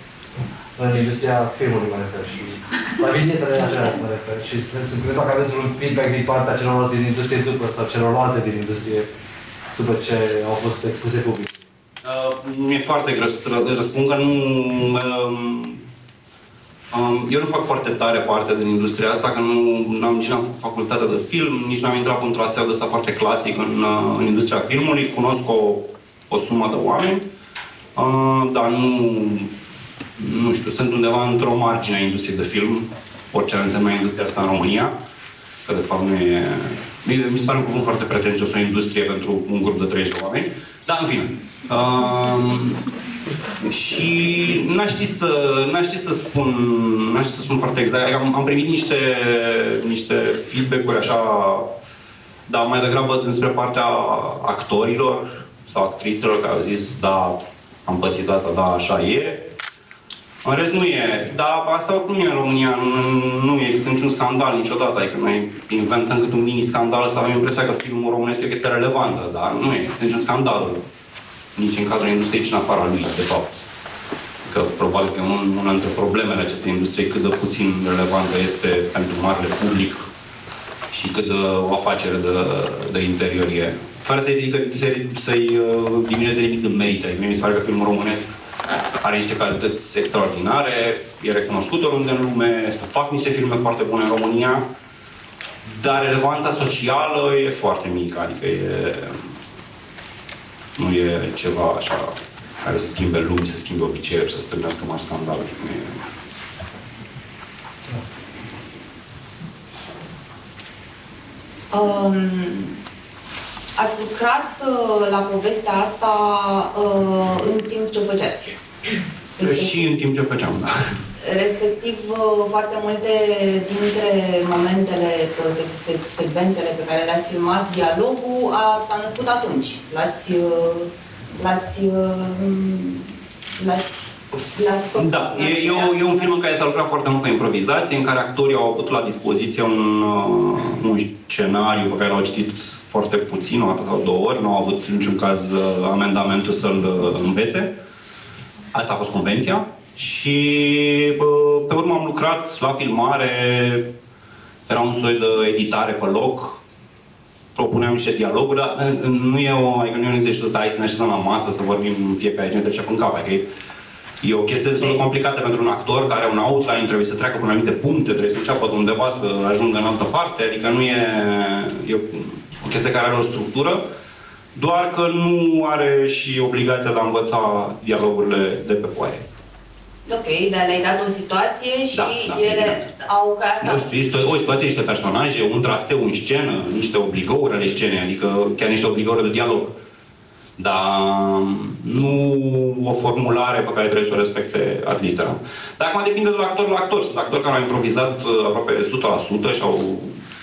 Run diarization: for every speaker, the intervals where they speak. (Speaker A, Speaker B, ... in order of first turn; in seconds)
Speaker A: 0.8-9.1, 9.8-11.7, 107.8-108.1
Speaker B: 12.0-15.8, 16.9-27.3, 28.0-29.5, 30.2-35.0, 35.7-42.9, 43.6-51.7, 52.5-59.5, 60.4-70.9, 71.6-73.7, 74.5-80.1, 80.9-88.3, 89.0-94.7, 95.7-99.3, 100.8-106.0, 119.4-121.0, 135.0-147.7, 148.7-153.9, 154.7-156.6, 157.6-163.5, 164.2-173.8, 174.6-179.2, 181.9-182.9, 183.6-189.8, 190.6-200.2
Speaker C: 111.7-112.8, 113.8-118.6, 119.4-119.7, 121.2-136.4, 180.1-183.9